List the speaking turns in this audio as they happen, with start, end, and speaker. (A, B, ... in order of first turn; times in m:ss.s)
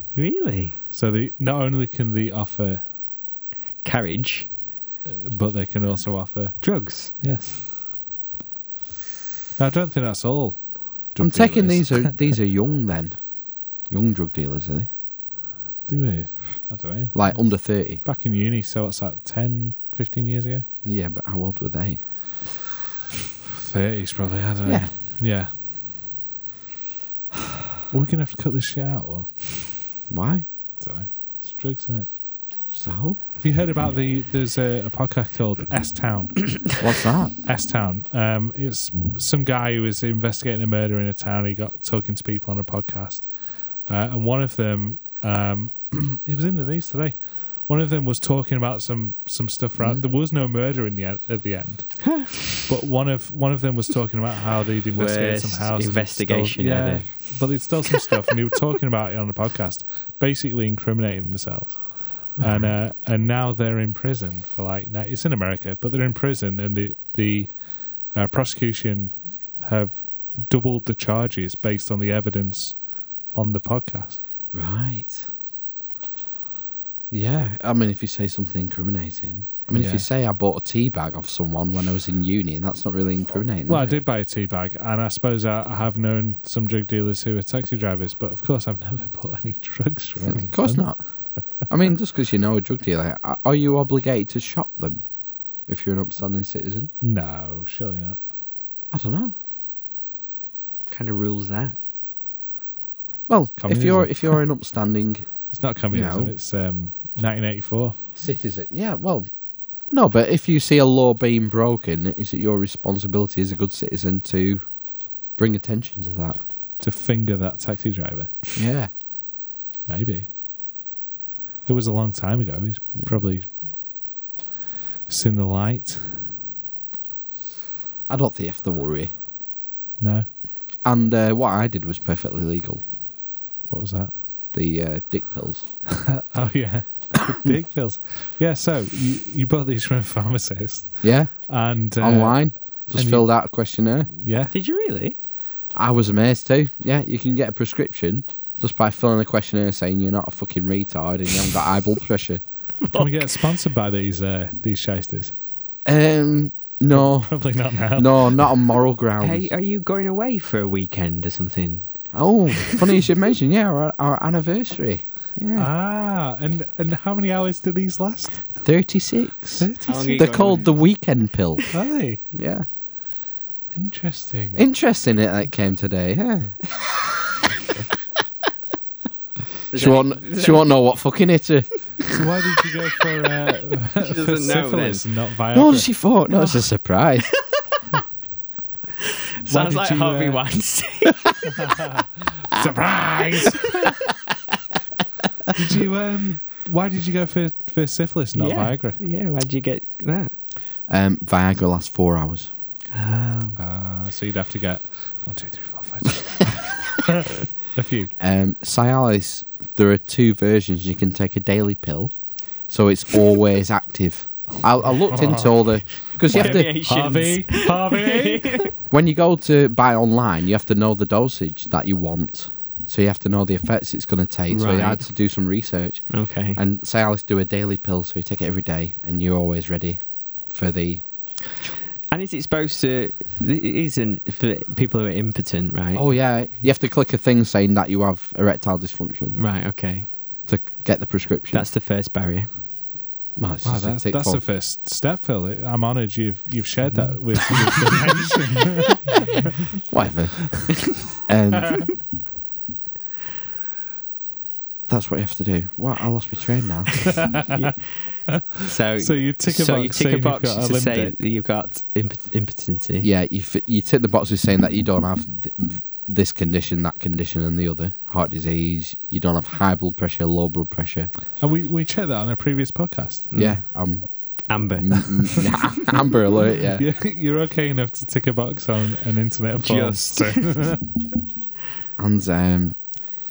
0:00.1-0:00.8 A
0:00.9-0:02.8 B
0:03.8-0:04.5 A
0:05.0-0:07.7 B
0:06.6-0:07.1 A
0:09.6-0:12.3 B
0:11.2-0:13.2 C
0:13.9-0:14.9 C
0:15.9-0:20.7 B
0:17.1-0:18.0 C
0:20.8-0:22.0 C
0:23.5-0:25.5 B
0:24.6-0:24.9 C
0:27.9-0:29.4 B
0:30.1-0:30.5 C
0:30.8-0:32.1 B
0:32.7-0:33.2 C
0:33.4-0:36.8 B
0:36.8-0:37.4 C
0:37.4-0:43.3 B
0:43.9-1:07.5 B
0:49.8-0:50.0 C
0:52.0-0:52.6 A
0:54.9-0:57.2 A
1:08.1-1:12.8 B
1:13.3-1:14.2 B
1:14.5-1:15.3 C
1:17.1-1:24.0 C
1:19.7-1:20.1 B
1:23.7-1:31.0 B
1:30.2-1:35.0 C
1:35.7-1:36.9 C
1:37.0-1:38.2 B
1:38.9-1:39.3 C
1:40.9-1:41.8 A
1:43.3-1:45.3 C
1:43.6-1:44.4 B
1:45.5-1:48.0 B
1:45.9-1:46.3 C
1:48.2-1:49.3 C
1:49.9-1:54.7 C
1:55.4-1:56.4 C
1:56.8-1:58.4 B
1:58.6-1:58.9 C
1:59.9-2:00.3 B
2:01.7-2:03.5 B
2:05.1-2:06.3 B
2:08.1-2:09.1 C
2:10.0-2:10.3 B
2:10.8-2:12.8 C
2:13.7-2:14.2 B
2:14.5-2:15.7 C
2:16.0-2:23.3 B
2:21.0-2:24.1 C
2:24.2-2:24.5 B
2:24.5-2:25.2 A
2:25.7-2:32.4 C
2:32.8-2:33.1 A
2:32.9-2:35.3 B
2:35.8-2:39.5 C
2:36.9-2:38.6 B
2:39.2-2:41.9 A
2:42.1-2:45.7 C
2:45.6-2:48.6 B
2:48.6-2:51.7 C
2:49.6-2:50.6 B
2:49.8-2:50.7 A
2:51.7-2:52.2 B
2:52.3-2:52.7 C
2:53.7-2:54.6 B
2:54.6-2:57.1 C
2:59.7-3:00.7 A
2:59.7-3:02.3 C
3:02.1-3:05.9 B
3:04.0-3:05.0 A
3:05.5-3:07.3 C
3:09.0-3:11.5 A
3:09.5-3:10.4 B
3:11.6-3:14.0 B
3:15.5-3:19.0 B
3:18.4-3:20.3 A
3:20.9-3:22.5 C
3:22.9-3:23.6 A
3:23.6-3:28.1 B
3:28.2-3:32.2 C
3:32.7-3:36.7 C
3:35.1-3:35.6 B
3:36.2-3:38.7 B
3:36.3-3:38.7 A
3:38.9-3:51.0 C
3:44.5-3:45.0 A
3:46.1-3:46.6 A
3:52.1-3:56.1 A
3:56.0-3:59.4 C
3:59.4-4:00.1 A
4:00.5-4:01.7 C
4:01.5-4:02.5 A
4:03.4-4:04.4 C
4:03.6-4:09.5 B
4:06.9-4:07.2 A
4:09.9-4:11.9 C
4:14.9-4:17.3 C
4:17.2-4:17.5 B
4:17.5-4:17.9 A
4:18.6-4:23.1 A
4:19.0-4:21.2 B
4:23.0-4:31.1 C
4:31.4-4:33.3 B
4:33.3-4:33.6 A
4:33.4-4:34.1 C
4:34.5-4:35.7 A
4:34.8-4:36.8 C
4:36.8-4:40.9 B
4:39.6-4:40.7 A
4:42.0-4:42.8 C